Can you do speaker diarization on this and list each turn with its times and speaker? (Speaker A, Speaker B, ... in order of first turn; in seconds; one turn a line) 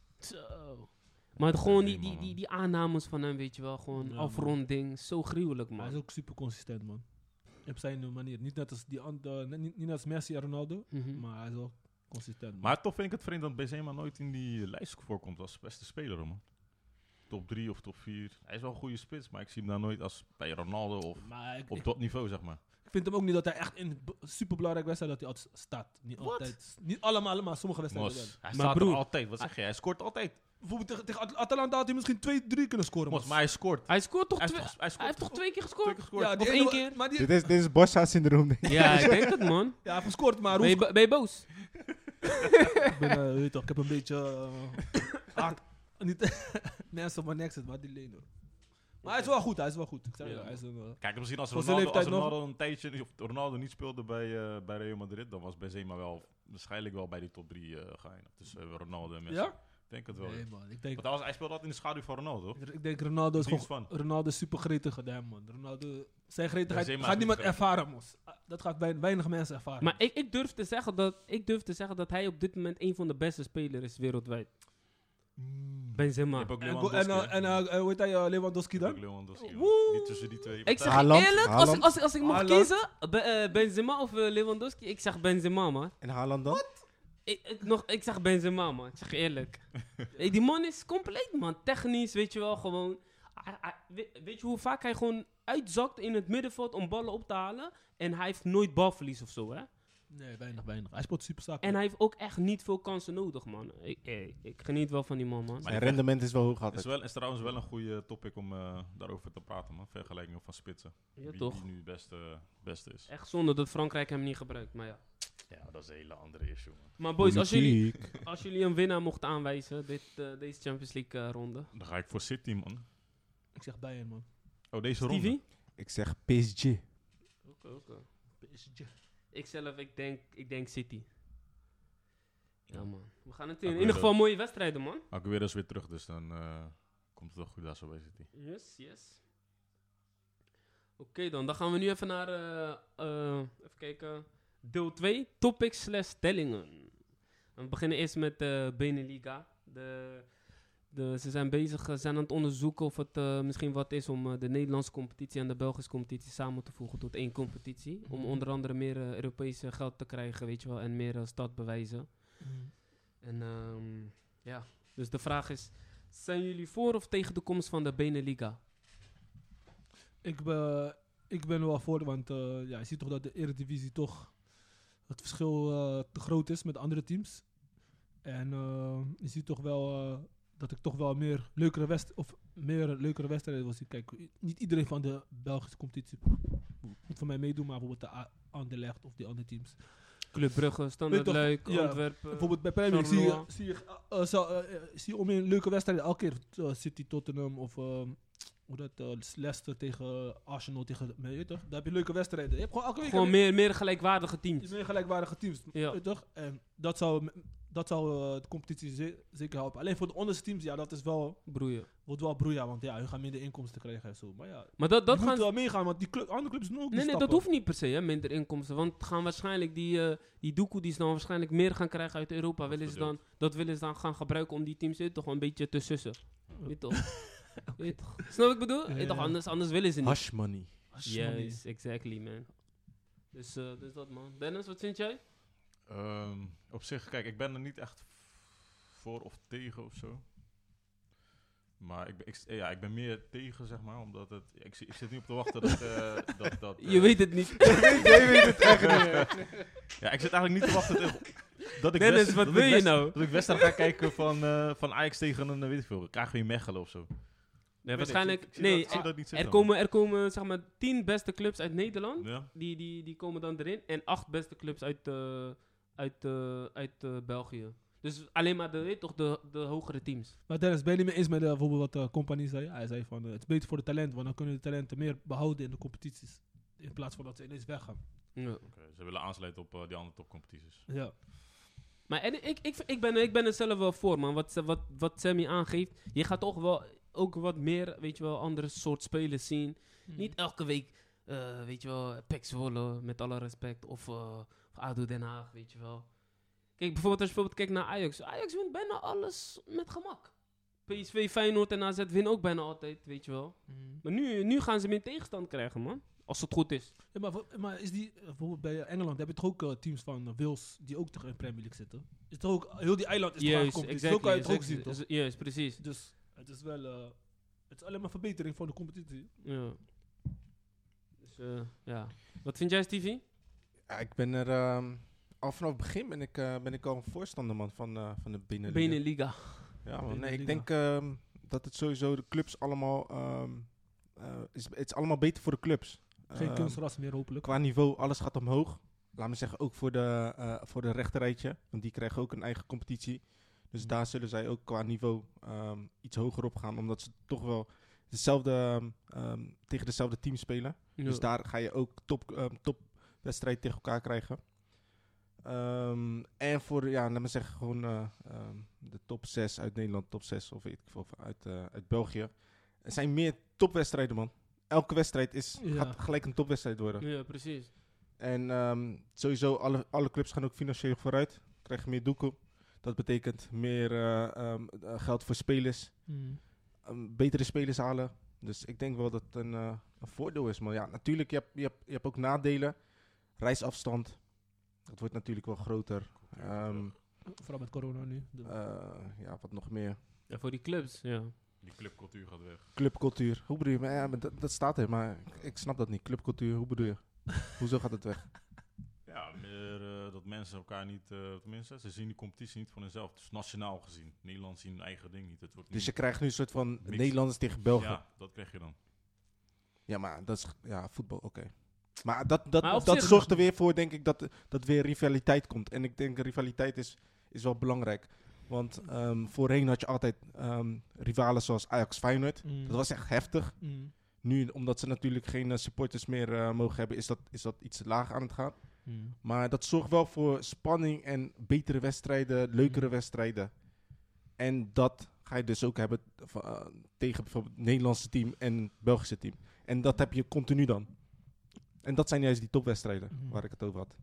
Speaker A: 0.2-6.0
Speaker B: 1.5-2.4
Speaker C: 4.0-4.6
Speaker C: 5.8-12.7
Speaker A: 10.9-11.2
Speaker B: 12.6-22.6
Speaker C: 21.2-28.4
Speaker A: 26.2-26.5
Speaker B: 27.9-30.4
Speaker A: 28.5-29.1
Speaker C: 30.6-33.4
Speaker B: 33.1-36.4
Speaker A: 33.9-37.0
Speaker C: 36.1-37.5
Speaker D: 37.2-39.5
Speaker A: 38.7-41.7
Speaker C: 39.8-40.9
Speaker C: 42.8-52.4
Speaker A: 49.0-49.5
Speaker A: 50.2-50.6
Speaker B: 51.0-63.9
Speaker C: 59.3-61.0
Speaker C: 62.6-70.0
Speaker B: 66.7-67.7
Speaker A: 69.8-74.6
Speaker B: 75.4-77.7
Speaker A: 76.0-76.5
Speaker C: 76.6-79.1
Speaker B: 78.7-81.3
Speaker A: 79.4-86.0
Speaker D: 80.8-82.0
Speaker C: 82.2-82.7
Speaker D: 86.0-86.7
Speaker A: 87.2-99.7
Speaker C: 100.1-101.8
Speaker A: 101.6-105.7
Speaker B: 105.6-113.1
Speaker D: 105.7-106.9
Speaker A: 111.2-111.7
Speaker A: 113.1-115.0
Speaker B: 115.5-117.0
Speaker A: 117.0-121.7
Speaker D: 117.2-118.1
Speaker B: 121.7-122.8
Speaker C: 123.5-124.3
Speaker B: 124.7-125.4
Speaker A: 125.0-125.4
Speaker D: 125.8-126.8
Speaker A: 127.5-128.1
Speaker C: 128.4-128.9
Speaker A: 129.3-131.1
Speaker A: 132.7-135.1
Speaker B: 132.7-138.3
Speaker A: 138.3-139.2
Speaker A: 141.0-162.7
Speaker C: 158.1-158.4
Speaker C: 162.4-162.7
Speaker A: 163.2-168.6
Speaker C: 170.2-190.3
Speaker A: 190.3-193.5
Speaker C: 191.1-203.4
Speaker A: 203.0-204.7
Speaker C: 204.6-217.4
Speaker A: 205.7-206.0
Speaker A: 211.5-211.9
Speaker A: 214.8-215.5
Speaker A: 216.9-235.2
Speaker B: 222.7-223.2
Speaker C: 226.6-229.4
Speaker D: 230.0-230.9
Speaker C: 230.9-231.6
Speaker B: 235.9-240.2
Speaker B: 241.8-259.7
Speaker A: 246.8-249.5
Speaker D: 247.7-249.4
Speaker A: 251.9-253.6
Speaker A: 257.8-270.4
Speaker B: 262.2-262.5
Speaker C: 270.5-278.0
Speaker A: 278.4-278.6
Speaker B: 278.6-280.9
Speaker C: 280.9-281.1
Speaker A: 282.1-306.9
Speaker C: 290.1-290.3
Speaker C: 303.7-304.0
Speaker C: 307.1-319.4
Speaker A: 313.4-315.8
Speaker A: 319.4-319.9
Speaker A: 321.2-323.2
Speaker D: 323.9-387.0
Speaker A: 328.7-329.9
Speaker C: 330.1-330.7
Speaker C: 336.3-337.5
Speaker A: 351.0-351.2
Speaker C: 365.6-366.0
Speaker A: 367.0-367.7
Speaker C: 376.1-376.4
Speaker B: 386.1-386.9
Speaker C: 387.2-388.6
Speaker D: 388.4-390.0
Speaker A: 390.3-391.4
Speaker B: 391.6-392.7
Speaker D: 392.8-398.4
Speaker B: 399.1-408.8
Speaker D: 405.7-408.0
Speaker D: 409.9-443.9
Speaker A: 412.6-413.3
Speaker C: 412.8-413.4
Speaker C: 422.4-423.9
Speaker C: 428.9-429.1
Speaker C: 443.1-443.6